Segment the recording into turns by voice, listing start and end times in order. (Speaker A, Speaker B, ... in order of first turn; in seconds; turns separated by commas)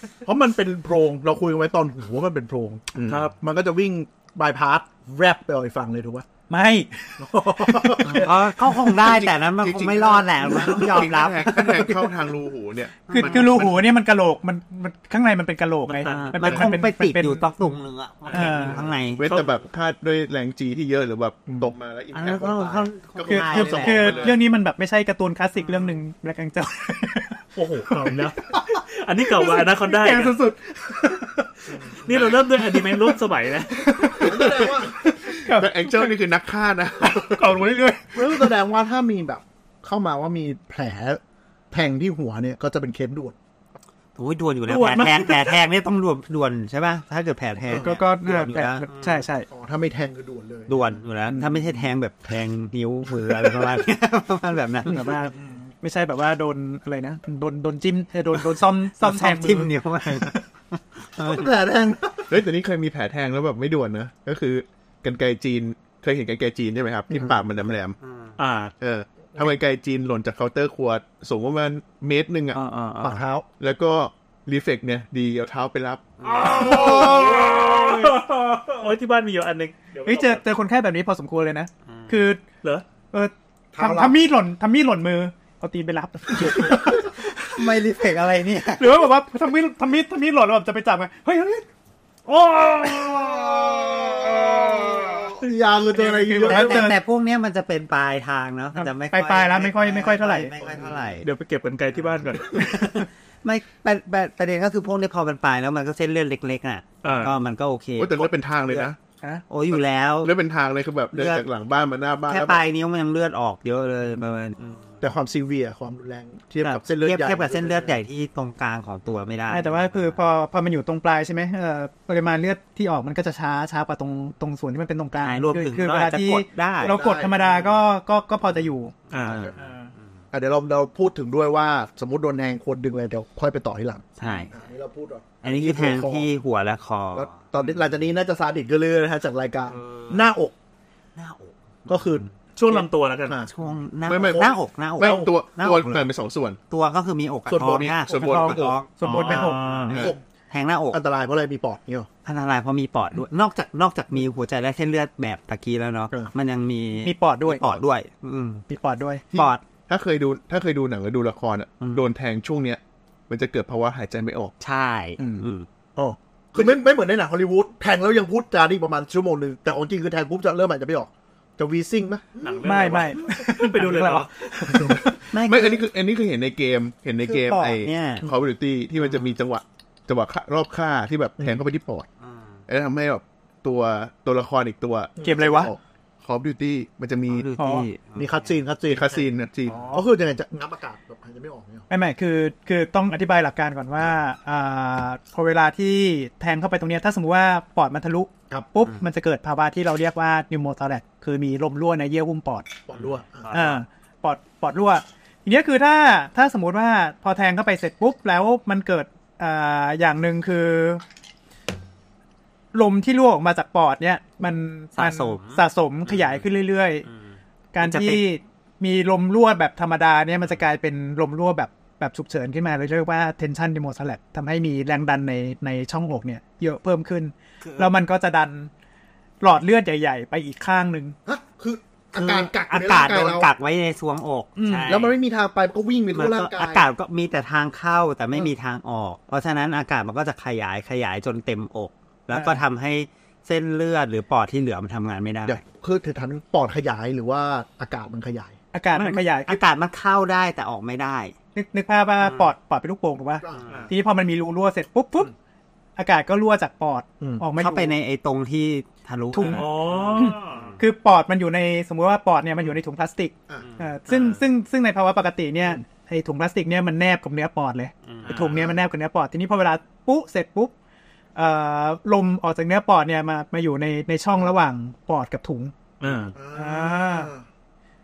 Speaker A: 0.2-6.2, Speaker B: 3.1-3.4, Speaker C: 6.5-8.2, Speaker A: 7.2-8.3, Speaker D: 8.0-11.9, Speaker E: 8.8-13.9, Speaker C: 11.8-12.1, Speaker D: 13.1-13.4, Speaker C: 13.1-17.7, Speaker B: 15.9-16.6, Speaker D: 16.0-19.2, Speaker C: 18.3-18.8, Speaker B: 18.3-19.5, Speaker E: 19.2-24.4, Speaker D: 22.1-24.3, Speaker C: 23.3-28.1, Speaker A: 23.3-24.3, Speaker B: 27.6-30.4, Speaker C: 29.3-31.7, Speaker B: 32.0-34.1, Speaker E: 32.0-32.4, Speaker C: 32.8-33.1, Speaker C: 33.8-36.1, Speaker A: 34.1-35.0, Speaker E: 34.2-37.6, Speaker C: 37.4-38.1, Speaker A: 38.1-41.2, Speaker A: 41.7-43.4, Speaker D: 44.2-49.2, Speaker C: 44.7-45.4, Speaker C: 47.7-49.5, Speaker A: 49.5-51.0, Speaker D: 50.7-55.1, Speaker C: 51.3-51.6, Speaker C: 54.9-60.4, Speaker D: 59.0-61.5, Speaker A: 61.2-62.4, Speaker E: 62.3-68.0, Speaker D: 68.0-68.3, Speaker B: 68.4-68.7, Speaker E: 68.8-72.6, Speaker B: 72.5-73.2, Speaker A: 73.0-73.5, Speaker E: 73.6-77.3, Speaker D: 76.2-76.8, Speaker B: 76.3-80.4, Speaker A: 76.5-77.4, Speaker C: 76.7-77.3, Speaker C: 80.0-82.4, Speaker C: 83.1-87.2, Speaker A: 83.7-84.2, Speaker D: 87.5-89.0, Speaker C: 88.8-91.7, Speaker C: 92.3-92.9, Speaker A: 92.5-97.0, Speaker C: 95.9-97.0, Speaker D: 96.4-101.2, Speaker C: 98.8-100.5, Speaker A: 100.6-101.1, Speaker B: 101.2-103.1, Speaker D: 102.5-108.3, Speaker B: 107.0-107.3, Speaker E: 108.0-109.0, Speaker D: 109.5-110.3, Speaker E: 109.7-112.6, Speaker D: 111.1-111.4, Speaker D: 112.3-114.8, Speaker A: 115.0-118.0, Speaker D: 116.6-120.0, Speaker C: 119.5-128.9, Speaker D: 125.2-127.0, Speaker A: 126.8-127.7, Speaker B: 129.1-129.7, Speaker D: 129.2-129.5, Speaker A: 130.3-136.3, Speaker D: 134.2-134.5, Speaker D: 135.4-137.4, Speaker A: 137.1-140.5, Speaker D: 139.7-140.2, Speaker D: 141.2-141.5, Speaker A: 141.9-143.5, Speaker B: 142.6-143.4, Speaker D: 143.5-146.0, Speaker E: 144.1-146.6, Speaker A: 144.1-145.3, Speaker D: 146.7-151.0, Speaker A: 147.5-150.2, Speaker E: 147.8-148.8, Speaker C: 148.2-149.8, Speaker B: 149.1-150.1, Speaker A: 150.9-152.1, Speaker D: 152.2-158.6, Speaker C: 157.0-157.7, Speaker C: 158.7-159.2, Speaker D: 159.3-159.6, Speaker E: 159.3-164.5, Speaker D: 164.6-165.7, Speaker A: 165.9-172.6, Speaker B: 172.4-174.8, Speaker C: 172.6-175.2, Speaker D: 175.3-175.8, Speaker E: 175.4-182.1, Speaker C: 177.3-177.8, Speaker D: 177.6-178.2, Speaker D: 182.2-182.6, Speaker E: 182.7-187.5, Speaker A: 185.2-185.7, Speaker C: 185.2-185.7, Speaker D: 187.3-188.6, Speaker C: 187.6-187.9, Speaker A: 188.2-191.8, Speaker E: 188.9-189.8, Speaker C: 189.7-190.0, Speaker C: 191.9-202.7, Speaker A: 202.9-203.7, Speaker C: 203.5-211.0, Speaker C: 212.7-217.1, Speaker D: 215.0-216.4, Speaker C: 217.7-228.7, Speaker D: 217.8-218.2, Speaker D: 227.6-227.9, Speaker C: 229.4-231.2, Speaker A: 231.2-233.5, Speaker D: 232.1-235.2, Speaker C: 234.6-235.0, Speaker A: 234.9-236.9, Speaker D: 236.1-245.6, Speaker C: 242.3-242.6, Speaker A: 245.4-248.6, Speaker C: 248.7-249.6, Speaker D: 248.9-251.3, Speaker C: 251.5-255.3, Speaker D: 252.2-252.5, Speaker D: 253.5-253.9, Speaker C: 256.0-257.9, Speaker A: 257.2-257.4, Speaker D: 257.6-260.7, Speaker C: 259.3-270.7, Speaker B: 259.4-260.7, Speaker D: 268.1-268.3, Speaker B: 268.3-268.5, Speaker C: 271.4-275.7, Speaker B: 276.0-276.4, Speaker A: 276.3-277.4, Speaker C: 276.5-277.3